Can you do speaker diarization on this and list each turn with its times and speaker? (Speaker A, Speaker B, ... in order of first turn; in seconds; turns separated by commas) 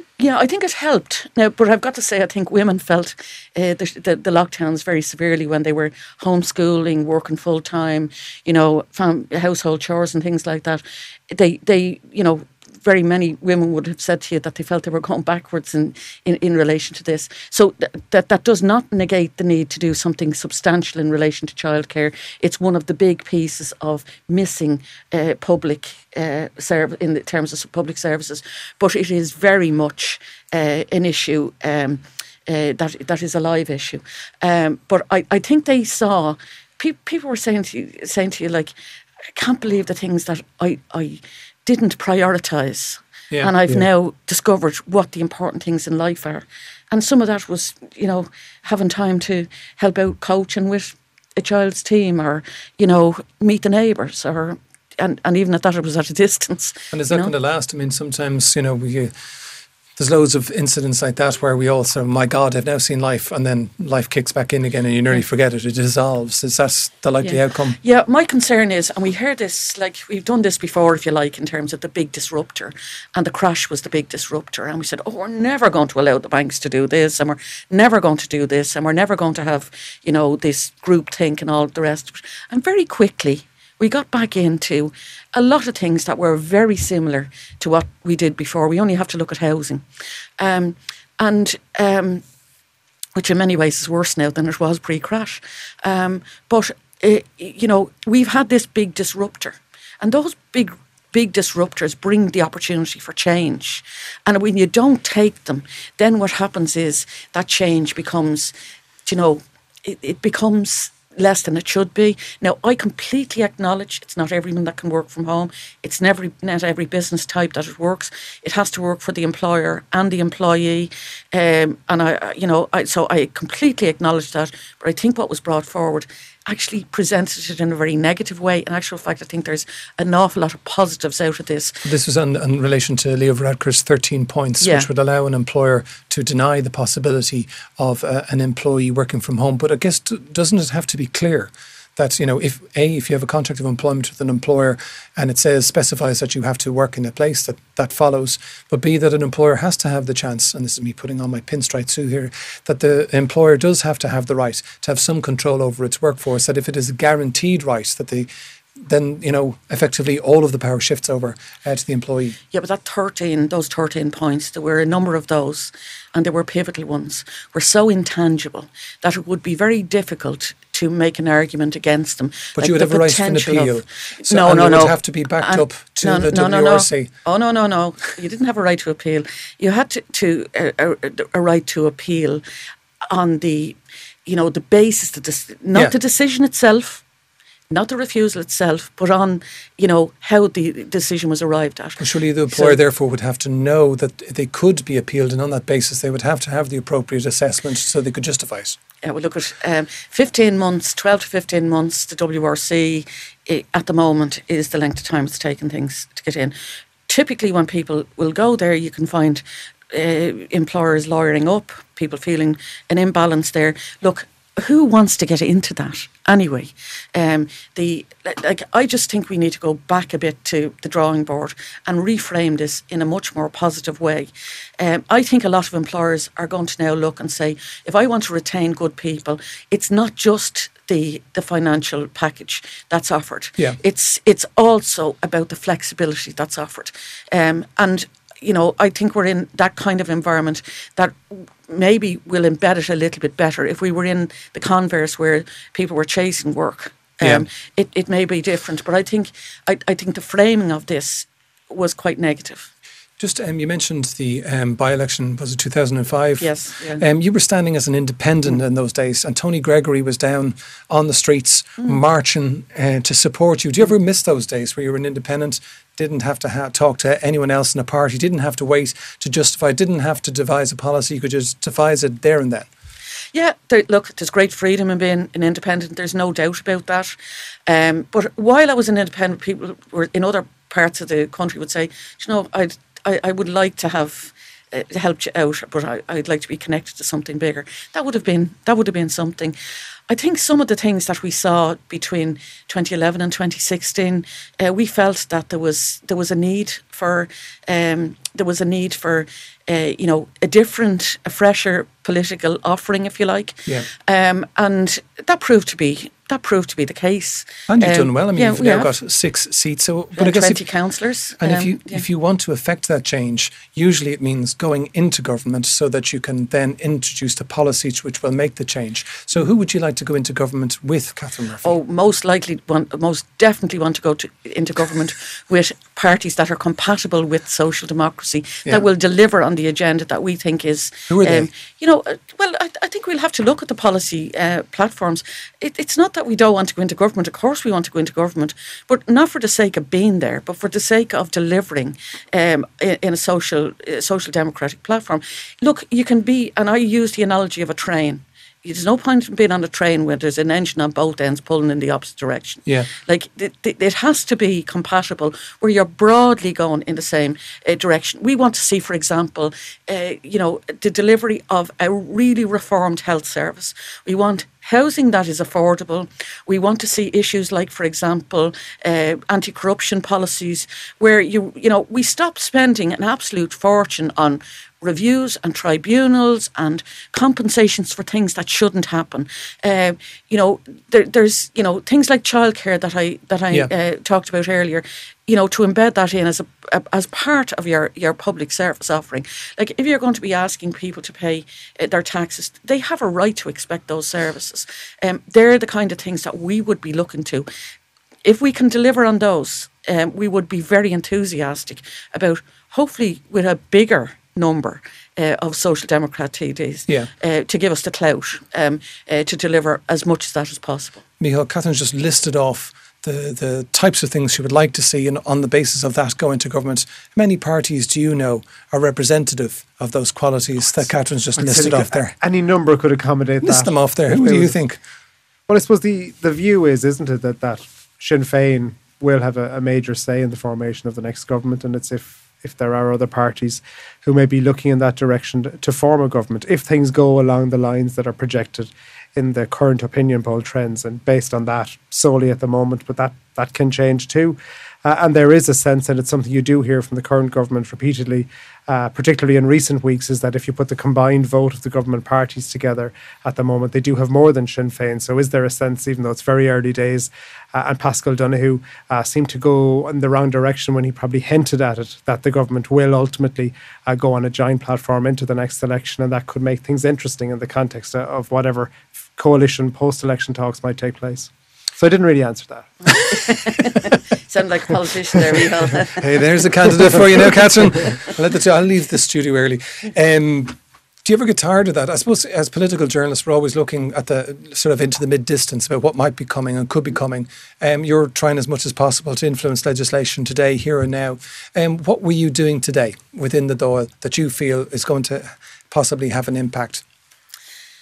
Speaker A: 0.2-38.7, Speaker A: 39.3-57.3, Speaker B: 43.3-43.8, Speaker B: 56.9-59.1, Speaker B: 60.0-67.8, Speaker A: 67.2-89.8, Speaker A: 90.4-92.2, Speaker A: 93.2-108.5, Speaker A: 109.1-131.8, Speaker B: 131.8-162.4, Speaker A: 134.6-134.9, Speaker A: 162.5-182.4, Speaker B: 172.6-177.1, Speaker A: 183.1-187.0, Speaker A: 187.7-192.8, Speaker B: 192.0-198.8, Speaker A: 199.0-206.5, Speaker A: 207.1-252.7, Speaker B: 247.2-247.5, Speaker B: 253.2-272.7, Speaker A: 256.4-257.0, Speaker A: 273.3-277.2, Speaker A: 277.7-289.6, Speaker A: 290.1-308.9, Speaker B: 307.7-310.7, Speaker A: 310.2-312.1, Speaker B: 311.4-321.8, Speaker A: 321.6-397.5, Speaker B: 331.1-331.5, Speaker A: 398.2-411.0, Speaker B: 411.2-422.1, Speaker C: 421.4-424.6, Speaker B: 423.4-424.8, Speaker C: 425.5-473.0, Speaker A: 472.9-476.0, Speaker B: 476.0-496.8